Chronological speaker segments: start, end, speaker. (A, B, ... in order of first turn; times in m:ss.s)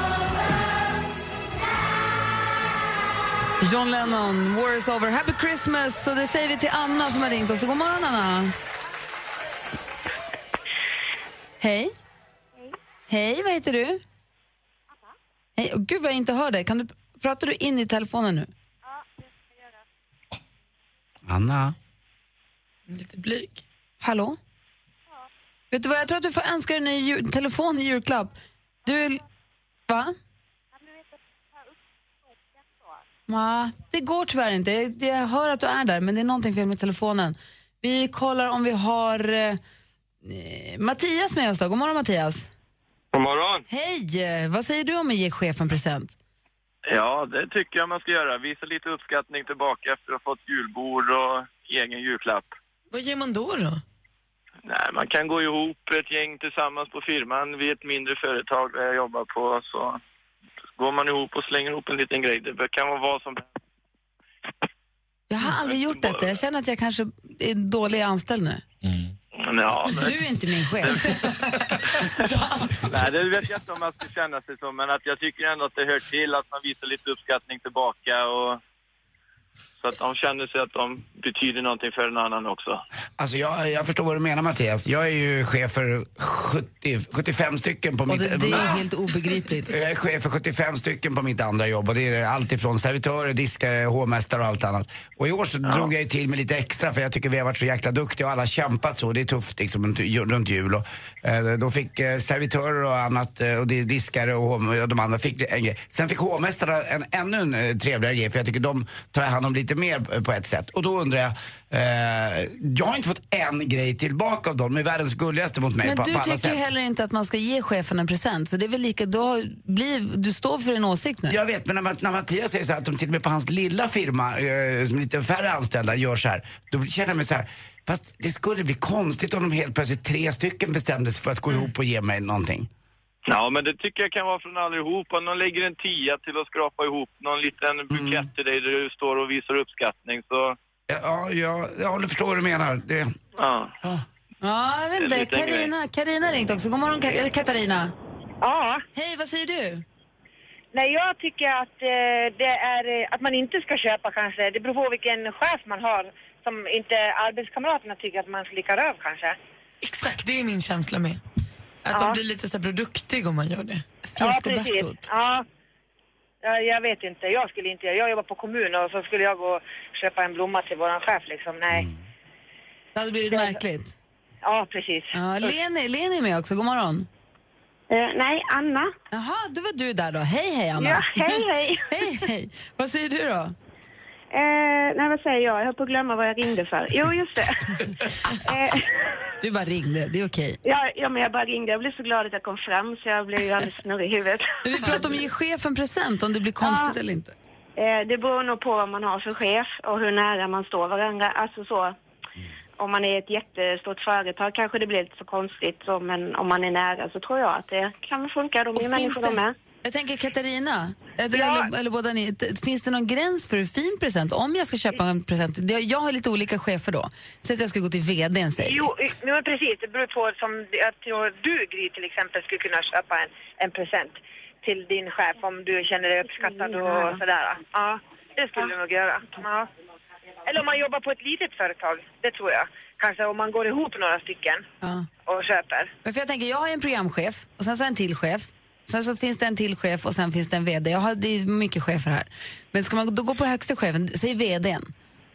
0:03.6-0:08.5 A
0:11.6-0:11.9 A
0:13.1-0:14.0 A
0:15.6-0:18.5 A
0:21.2-0:21.8 B
0:22.9-0:23.6 C
0:24.0-0:24.4 A
0:25.7-0:28.3 A
0:28.8-0:29.2 A
0:29.9-0:30.1 A
0:33.3-0:39.6 A
0:40.2-0:42.5 A
0:43.1-0:43.6 D
0:43.7-0:46.1 A
0:46.9-0:52.6 D
0:52.9-0:53.8 C
0:54.6-1:00.0 D
1:00.8-1:03.5 D
1:05.3-1:08.6 A
1:09.4-1:10.2 D
1:09.9-1:11.2 A
1:10.8-1:11.1 D
1:12.2-1:12.8 C
1:12.9-1:18.6 D
1:19.8-1:22.8 D
1:23.2-1:28.8 B
1:28.1-1:29.8 A
1:29.7-1:56.7 B
1:55.8-2:01.4 A
2:01.3-2:12.7 B
2:13.3-2:20.6 D
2:17.9-2:18.3 B
2:20.9-2:23.1 B
2:23.4-2:23.7 D
2:24.4-2:27.9 A
2:25.0-2:25.7 D
2:28.4-2:28.8 E
2:28.9-2:29.8 A
2:30.7-2:39.4 E
2:39.8-2:41.2 C
2:41.8-2:43.8 C
2:41.9-2:42.2 E
2:44.0-2:45.0 A
2:44.2-2:45.4 E
2:46.4-2:51.9 E
2:52.9-2:53.9 A
2:54.4-2:55.1 E
2:55.1-2:57.1 A
2:57.9-2:58.9 F
2:59.1-3:03.5 A
3:00.8-3:01.8 F
3:04.3-3:07.8 F
3:09.4-3:10.6 A
3:10.6-3:14.4 F
3:14.6-3:17.3 A
3:16.6-3:16.9 F
3:17.8-3:21.9 F
3:22.8-3:29.5 F
3:28.8-3:38.9 A
3:31.3-3:31.7 E
3:38.6-3:49.7 E
3:50.4-3:54.6 E
3:54.8-3:55.1 A
3:55.2-3:55.9 E
3:56.0-4:04.9 A